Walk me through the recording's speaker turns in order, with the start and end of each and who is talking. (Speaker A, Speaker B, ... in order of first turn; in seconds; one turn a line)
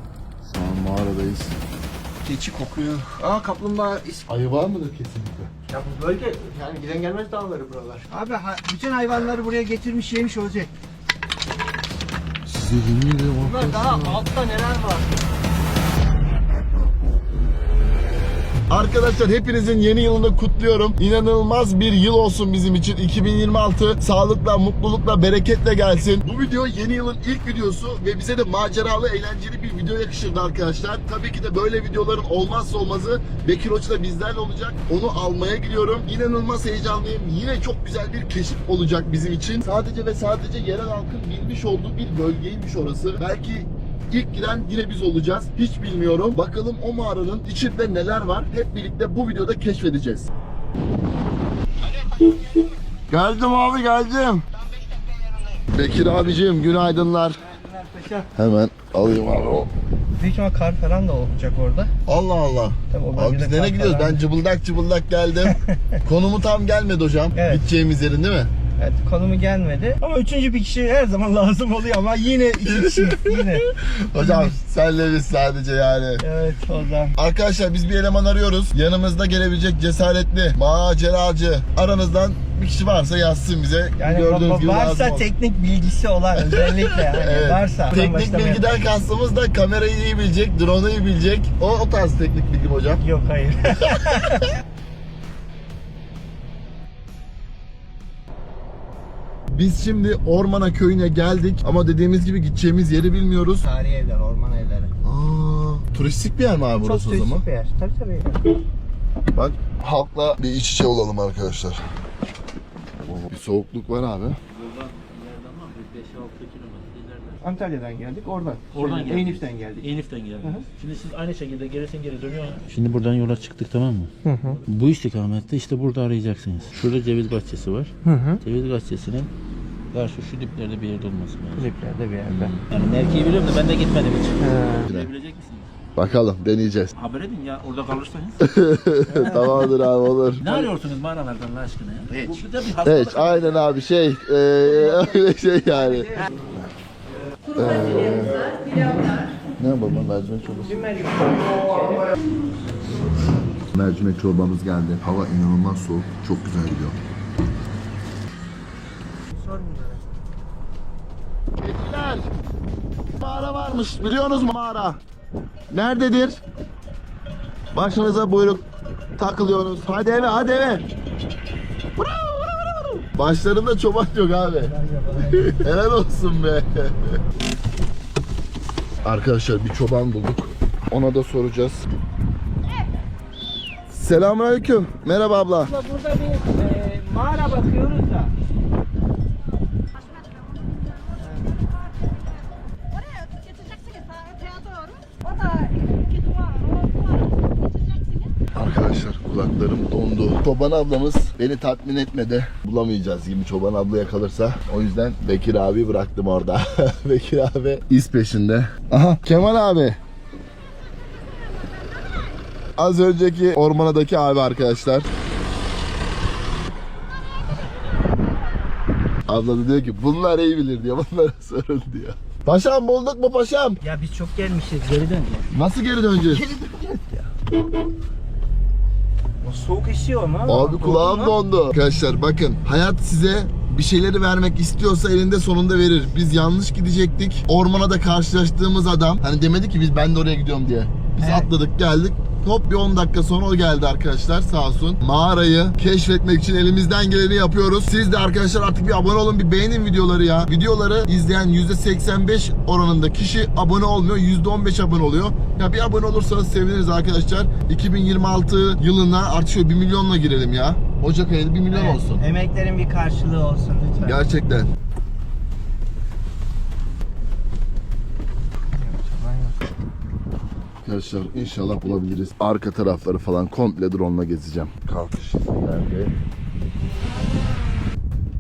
Speaker A: 0.4-1.6
Speaker B: 2.2-4.3
Speaker A: 4.3-5.5
Speaker B: 5.7-10.7
Speaker A: 12.5-14.2
Speaker B: 13.4-15.3
Speaker A: 18.7-50.3
Speaker A: 53.1-54.5
Speaker A: 55.7-57.4
Speaker B: 57.4-58.3
Speaker A: 58.4-59.7
Speaker B: 60.1-61.9
Speaker A: 62.1-68.5
Speaker B: 62.9-64.2
Speaker B: 65.5-66.0
Speaker B: 67.3-67.7
Speaker B: 68.8-74.6
Speaker A: 72.6-76.2
Speaker B: 76.2-77.2
Speaker A: 77.2-85.3
Speaker B: 84.0-88.7
Speaker A: 86.4-93.0
Speaker B: 93.0-94.6
Speaker A: 93.8-94.4
Speaker A: 99.5-103.7
Speaker B: 103.6-105.0
Speaker A: 105.0-107.5
Speaker B: 106.8-108.5
Speaker A: 109.3-111.8
Speaker A: 113.0-114.4
Speaker C: 114.5-117.6
Speaker B: 117.4-119.9
Speaker C: 118.7-129.3
Speaker B: 120.4-120.7
Speaker B: 124.2-124.6
Speaker B: 128.0-128.4
Speaker C: 129.9-131.7
Speaker B: 131.6-132.5
Speaker C: 132.3-135.7
Speaker B: 134.4-134.9
Speaker A: 136.0-136.9
Speaker C: 137.0-138.5
Speaker A: 138.4-140.7
Speaker B: 139.1-139.7
Speaker C: 140.4-143.7
Speaker A: 142.8-146.1
Speaker B: 144.7-145.1
Speaker B: 145.7-146.4
Speaker A: 147.6-148.8
Speaker B: 147.7-149.3
Speaker A: 149.6-150.8
Speaker B: 150.5-152.1
Speaker A: 153.7-157.0
Speaker B: 159.3-160.2
Speaker A: 161.6-162.3
Speaker A: 163.2-165.0
Speaker A: 165.7-166.4
Speaker A: 167.7-168.6
Speaker A: 169.2-170.8
Speaker B: 172.0-173.0
Speaker A: 173.2-174.7
Speaker B: 174.6-175.7
Speaker A: 175.2-177.2
Speaker A: 179.0-181.9
Speaker A: 183.9-185.7
Speaker B: 185.6-188.3
Speaker B: 191.2-191.6
Speaker A: 198.5-210.0
Speaker A: 212.8-215.1
Speaker A: 219.3-223.8
Speaker B: 223.8-225.5
Speaker A: 225.5-226.6
Speaker B: 226.3-227.3
Speaker B: 229.4-231.4
Speaker A: 230.4-262.2
Speaker B: 241.2-241.5
Speaker B: 261.7-264.3
Speaker A: 264.0-264.7
Speaker B: 268.7-269.7
Speaker A: 270.8-276.1